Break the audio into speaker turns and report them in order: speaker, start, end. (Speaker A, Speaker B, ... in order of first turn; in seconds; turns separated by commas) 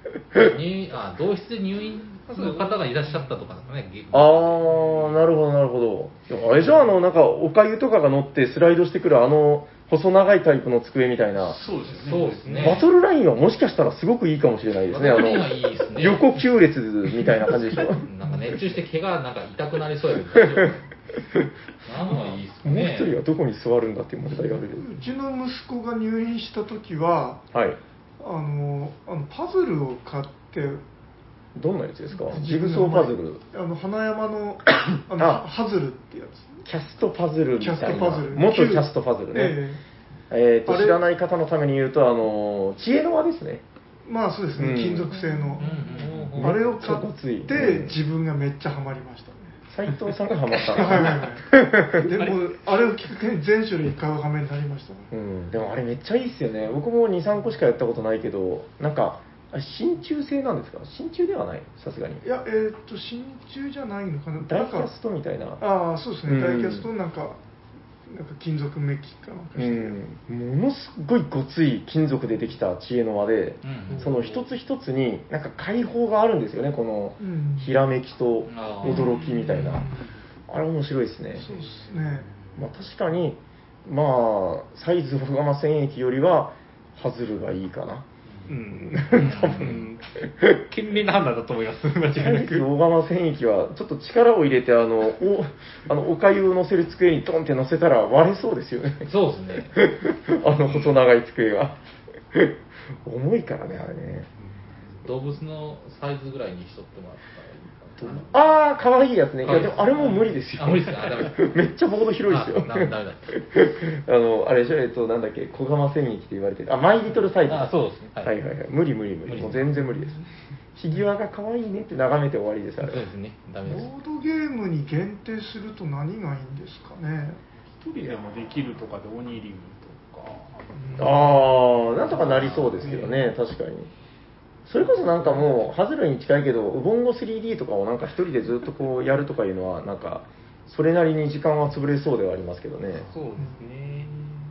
Speaker A: 0.4-5.0, Speaker B: 2.3-3.3, Speaker C: 4.1-11.6, Speaker B: 11.4-12.8, Speaker A: 11.9-12.8, Speaker C: 12.6-18.1, Speaker A: 14.9-16.4, Speaker A: 17.9-20.9, Speaker C: 20.4-20.7, Speaker A: 21.9-23.1, Speaker C: 22.1-24.9, Speaker D: 24.7-27.5, Speaker C: 27.5-27.8, Speaker D: 28.2-30.8, Speaker C: 31.6-33.4, Speaker D: 32.2-36.6, Speaker C: 35.2-35.4, Speaker C: 36.6-39.6, Speaker D: 37.6-39.8, Speaker C: 40.3-43.6, Speaker D: 40.7-41.0, Speaker D: 44.1-49.6, Speaker C: 44.5-45.2, Speaker A: 45.6-46.7, Speaker C: 46.4-48.0, Speaker C: 49.7-52.2, Speaker D: 50.6-55.1, Speaker C: 55.1-62.2, Speaker D: 62.2-64.9, Speaker C: 64.4-65.6, Speaker D: 65.6-67.4, Speaker C: 66.2-66.9, Speaker D: 68.1-70.0, Speaker C: 69.5-79.9, Speaker A: 73.6-74.1, Speaker B: 73.9-74.4, Speaker D: 77.2-77.7, Speaker A: 78.5-79.2, Speaker B: 79.0-80.1, Speaker C: 80.5-81.5, Speaker D: 81.4-82.3, Speaker B: 81.4-82.6, Speaker C: 82.5-88.1, Speaker B: 88.3-88.6, Speaker E: 88.5-92.7, Speaker C: 88.7-89.8, Speaker A: 89.1-89.8, Speaker C: 92.2-99.1, Speaker A: 99.1-99.8, Speaker C: 99.7-101.8, Speaker C: 102.3-104.3, Speaker A: 105.0-108.4, Speaker C: 108.0-120.2, Speaker A: 109.4-111.5, Speaker A: 112.3-113.4, Speaker A: 117.5-118.3, Speaker A: 119.3-119.6, Speaker C: 120.8-123.0, Speaker A: 122.8-123.9, Speaker D: 123.7-127.4, Speaker B: 127.7-133.2, Speaker D: 130.8-131.3, Speaker C: 131.0-133.9, Speaker A: 132.4-132.9, Speaker C: 134.7-143.1, Speaker B: 134.9-135.6, Speaker B: 142.9-144.3, Speaker E: 143.1-144.2